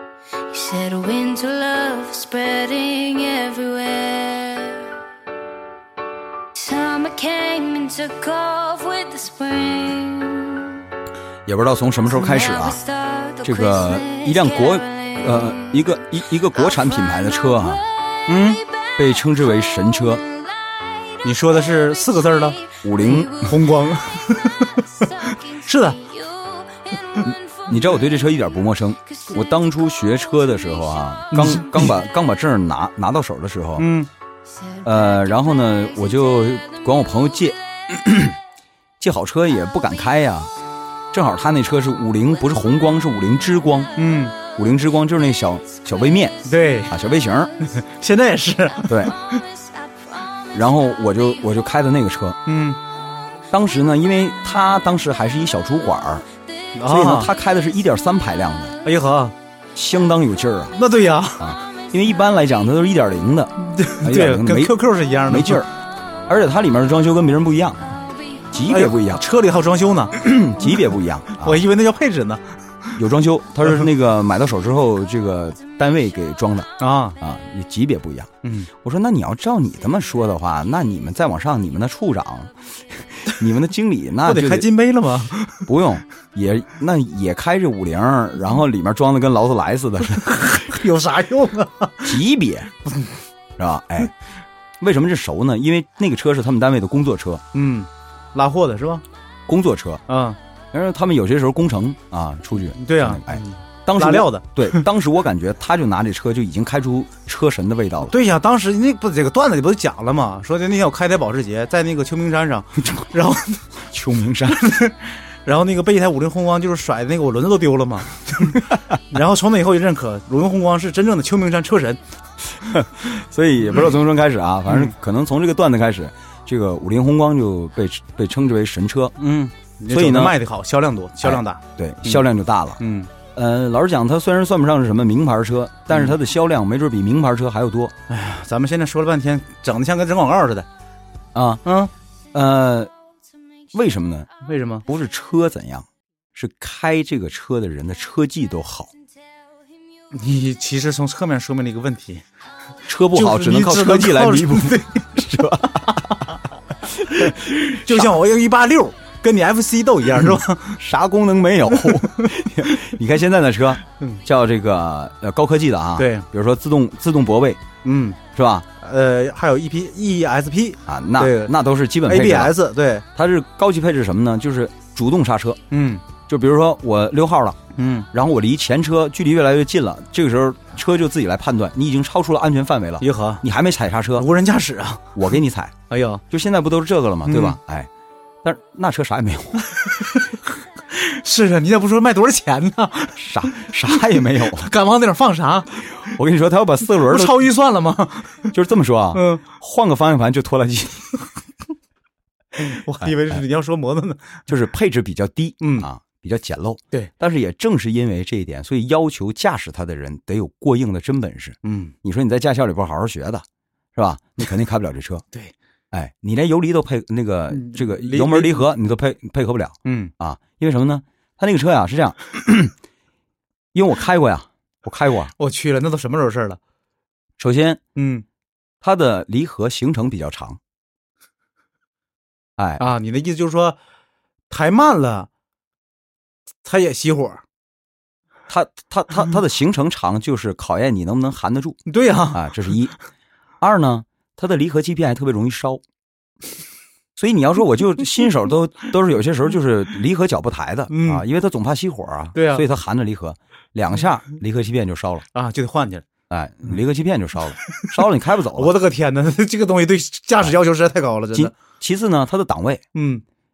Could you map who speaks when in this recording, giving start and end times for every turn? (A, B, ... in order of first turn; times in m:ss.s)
0:00.5-0:05.0 A
0:06.5-0:10.8 A
0:11.5-0:12.8 B
0:12.2-0:23.5 A
0:13.4-0:17.8 B
0:18.3-0:18.6 C
0:19.0-0:20.2 B
0:21.2-0:22.6 C
0:22.8-0:23.5 B
0:23.1-0:26.0 C
0:25.0-0:28.1 A
0:27.7-0:33.9 B
0:29.2-0:30.6 A
0:31.3-0:31.9 C
0:33.8-0:34.1 C
0:34.7-0:36.0 A
0:34.8-0:38.4 B
0:39.0-0:40.5 B
0:41.1-0:43.9 B
0:44.0-0:44.4 C
0:44.6-0:47.5 B
0:46.4-0:47.0 C
0:47.7-0:49.2 C
0:48.9-0:49.2 B
0:49.6-0:50.5 A
0:50.5-0:52.4 B
0:52.4-0:52.8 C
0:53.5-0:56.2 B
0:56.8-0:57.3 C
0:56.9-0:58.8 B
0:58.8-0:59.3 C
0:59.8-1:00.8 B
1:00.7-1:01.6 C
1:01.4-1:05.7 B
1:03.6-1:05.6 C
1:06.3-1:07.9 B
1:08.5-1:09.2 B
1:08.7-1:10.2 C
1:10.1-1:11.6 B
1:11.4-1:12.9 C
1:13.0-1:16.7 B
1:16.8-1:17.2 C
1:17.2-1:24.7 B
1:18.4-1:18.7 C
1:24.2-1:25.7 C
1:25.7-1:30.6 B
1:30.3-1:32.2 C
1:32.0-1:32.7 B
1:33.6-1:34.1 B
1:34.8-1:37.4 B
1:37.5-1:39.0 C
1:39.5-1:40.0 B
1:40.1-1:40.4 C
1:40.7-1:48.1 B
1:42.8-1:44.8 C
1:48.1-1:53.6 C
1:52.8-1:53.1 B
1:53.9-1:54.6 B
1:54.5-2:02.0 C
2:02.6-2:09.2 B
2:09.2-2:12.2 C
2:09.9-2:10.4 B
2:11.2-2:12.8 B
2:12.8-2:13.1 C
2:13.3-2:17.9 B
2:15.9-2:16.2 C
2:18.1-2:20.7 C
2:21.3-2:21.6 B
2:21.6-2:21.9 C
2:22.3-2:22.9 B
2:23.7-2:24.3 B
2:24.4-2:24.8 C
2:24.9-2:28.9 B
2:30.1-2:32.2 C
2:32.9-2:36.1 B
2:33.1-2:35.1 C
2:36.9-2:38.1 B
2:37.2-2:40.8 C
2:40.8-2:47.6 B
2:46.0-2:46.2 C
2:47.8-2:48.2 C
2:48.3-2:48.7 B
2:48.8-2:51.5 C
2:50.8-2:52.6 B
2:52.1-2:53.0 C
2:53.2-2:55.6 B
2:55.7-2:56.0 C
2:56.3-2:57.6 B
2:57.8-2:58.1 C
2:58.1-3:04.3 B
3:03.0-3:03.4 C
3:04.2-3:05.1 C
3:05.2-3:05.8 B
3:05.9-3:06.2 C
3:06.3-3:07.9 B
3:07.2-3:07.6 C
3:08.4-3:09.6 B
3:10.9-3:13.7 C
3:13.2-3:14.7 B
3:14.4-3:16.1 C
3:15.9-3:17.4 B
3:17.0-3:18.5 C
3:18.5-3:21.1 B
3:19.1-3:19.4 C
3:22.6-3:24.4 C
3:23.0-3:23.4 B
3:24.5-3:35.2 B
3:25.6-3:25.9 C
3:31.6-3:31.9 C
3:35.9-3:42.7 B
3:37.5-3:38.6 C
3:39.8-3:40.1 C
3:43.7-3:45.3 B
3:45.4-3:46.6 C
3:47.4-3:47.8 B
3:48.0-3:48.2 C
3:48.8-3:50.6 B
3:52.6-3:52.8 B
3:52.8-3:53.8 C
3:54.5-3:55.3 C
3:56.6-3:57.4 C
3:58.5-4:01.8 B
4:01.9-4:02.5 C
4:02.3-4:02.9 B
4:03.6-4:05.8 B
4:07.2-4:15.3 B
4:10.9-4:11.2 C
4:12.4-4:12.6 C
4:15.3-4:16.0 C
4:16.3-4:18.7 B
4:18.5-4:21.5 C
4:21.3-4:22.8 B
4:22.9-4:23.2 C